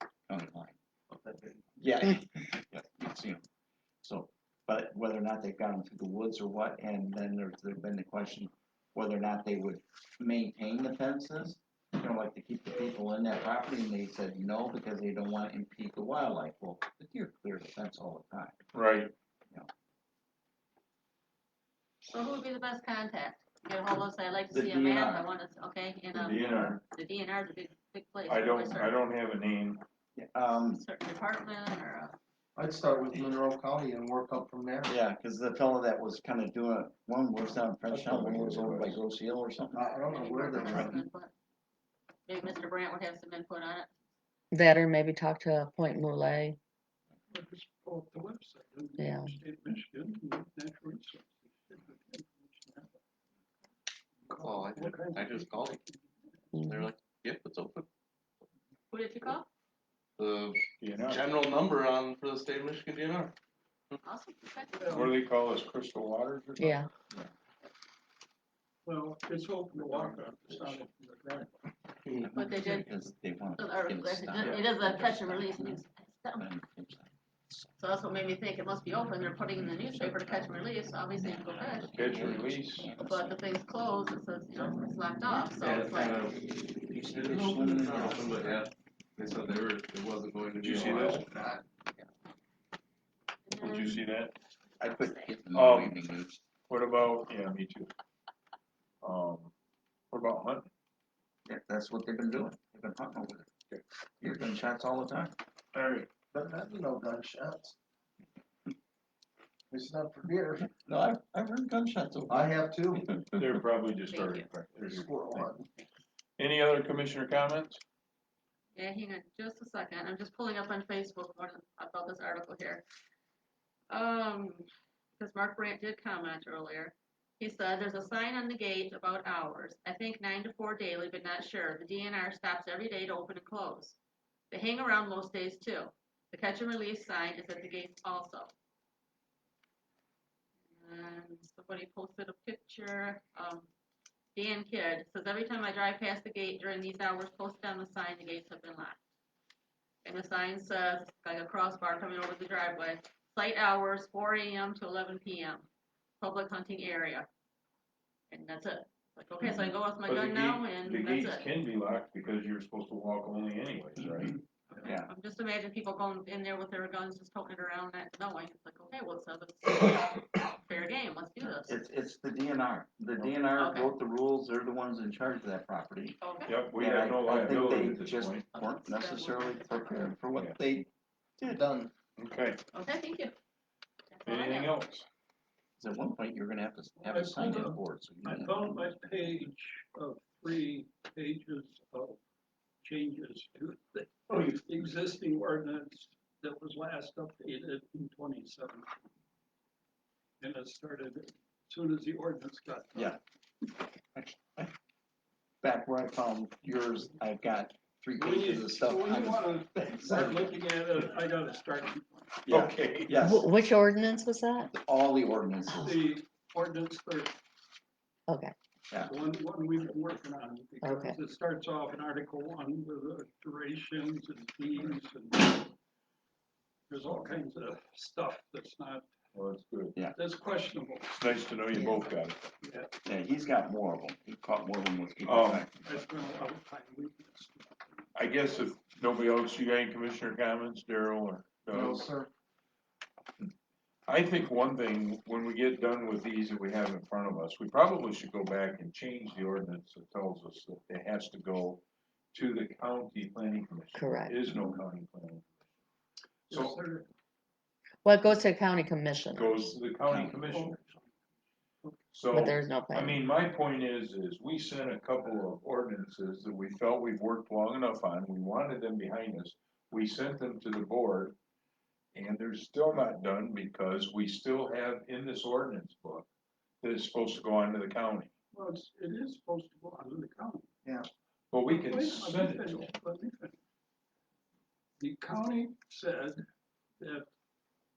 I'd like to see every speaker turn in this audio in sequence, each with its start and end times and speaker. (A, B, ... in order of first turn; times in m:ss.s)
0:00.3-0:00.8 A
0:01.1-0:01.6 B
0:01.8-0:03.4 A
0:04.0-0:18.7 A
0:18.7-0:19.1 C
0:22.1-0:29.0 D
0:24.5-0:25.3 A
0:26.2-0:26.8 C
0:26.2-0:26.8 A
0:28.3-0:29.8 C
0:30.2-0:30.8 A
0:30.7-0:32.2 D
0:32.6-0:34.9 B
0:34.9-0:40.0 A
0:37.9-0:39.0 C
0:39.7-0:41.0 B
0:40.1-0:41.3 D
0:40.6-0:41.0 A
0:42.3-0:44.0 D
0:44.5-0:46.6 E
0:47.3-0:53.0 F
0:49.0-0:49.4 E
0:54.3-0:56.6 F
0:54.3-0:55.8 G
0:56.5-0:56.9 E
0:56.6-0:57.9 G
0:58.9-0:59.5 D
1:00.2-1:03.4 G
1:00.8-1:01.2 C
1:04.0-1:05.0 D
1:04.8-1:05.2 F
1:04.9-1:06.8 C
1:06.6-1:06.9 E
1:08.8-1:11.7 F
1:10.5-1:10.8 A
1:12.2-1:15.8 A
1:12.3-1:13.0 D
1:13.6-1:16.5 D
1:16.3-1:17.7 A
1:17.8-1:22.1 D
1:20.0-1:20.6 A
1:21.1-1:23.4 A
1:21.9-1:22.9 C
1:23.0-1:26.2 D
1:25.6-1:26.4 G
1:26.9-1:28.6 A
1:27.0-1:31.2 G
1:30.6-1:31.2 C
1:31.2-1:31.6 B
1:33.5-1:34.1 D
1:33.6-1:34.4 C
1:34.8-1:35.4 D
1:34.8-1:36.4 A
1:35.5-1:36.0 C
1:36.7-1:37.9 C
1:39.0-1:39.5 C
1:40.1-1:40.7 C
1:41.5-1:43.5 A
1:44.2-1:45.4 A
1:45.7-1:46.1 C
1:46.3-1:47.8 B
1:49.7-1:50.7 B
1:50.8-1:52.5 A
1:52.3-1:53.1 B
1:53.4-1:55.5 C
1:54.1-1:54.5 D
1:54.8-1:55.6 B
1:56.4-1:57.8 C
1:58.8-2:02.8 D
2:03.9-2:04.7 D
2:05.2-2:14.0 D
2:14.5-2:18.5 D
2:20.8-2:23.7 D
2:24.4-2:29.0 D
2:30.0-2:35.7 D
2:36.2-2:37.3 D
2:38.3-2:41.5 D
2:40.0-2:44.4 C
2:44.0-2:45.1 A
2:44.8-2:51.8 D
2:51.4-2:56.2 A
2:53.6-2:53.9 D
2:56.2-2:56.6 D
2:56.5-2:58.4 C
2:56.7-3:00.9 A
2:58.5-3:00.1 D
3:01.4-3:01.9 B
3:02.2-3:02.6 C
3:02.7-3:03.4 D
3:04.1-3:04.7 D
3:04.2-3:05.1 C
3:05.8-3:08.8 A
3:07.0-3:12.2 F
3:12.8-3:19.1 F
3:20.4-3:23.2 F
3:23.0-3:23.2 A
3:24.2-3:24.7 A
3:25.6-3:30.6 A
3:28.2-3:32.5 F
3:32.5-3:33.5 A
3:32.5-3:33.2 C
3:33.2-3:34.7 E
3:34.7-3:35.9 A
3:35.7-3:36.0 E
3:35.8-3:37.3 F
3:38.3-3:38.5 E
3:38.9-3:39.2 A
3:39.0-3:45.8 F
3:40.8-3:41.2 E
3:46.9-3:49.1 F
3:49.3-3:50.0 C
3:50.1-3:51.3 F
3:51.2-3:52.5 C
3:51.7-3:52.1 E
3:52.6-3:52.9 F
3:53.0-3:56.0 A
3:55.2-3:55.7 C
3:55.8-3:58.1 F
3:58.2-4:02.1 C
4:01.7-4:02.3 B
4:04.1-4:15.5 C
4:13.9-4:14.6 E
4:16.5-4:16.8 C
4:16.5-4:17.1 F
4:18.0-4:19.7 E
4:19.3-4:20.8 C
4:20.0-4:20.9 A
4:22.1-4:31.4 C
4:22.3-4:23.2 E
4:32.1-4:36.3 C
4:36.8-4:38.3 C
4:38.5-4:40.7 F
4:41.5-4:42.9 C
4:41.7-4:43.6 F
4:45.0-4:46.4 F
4:47.0-4:47.3 F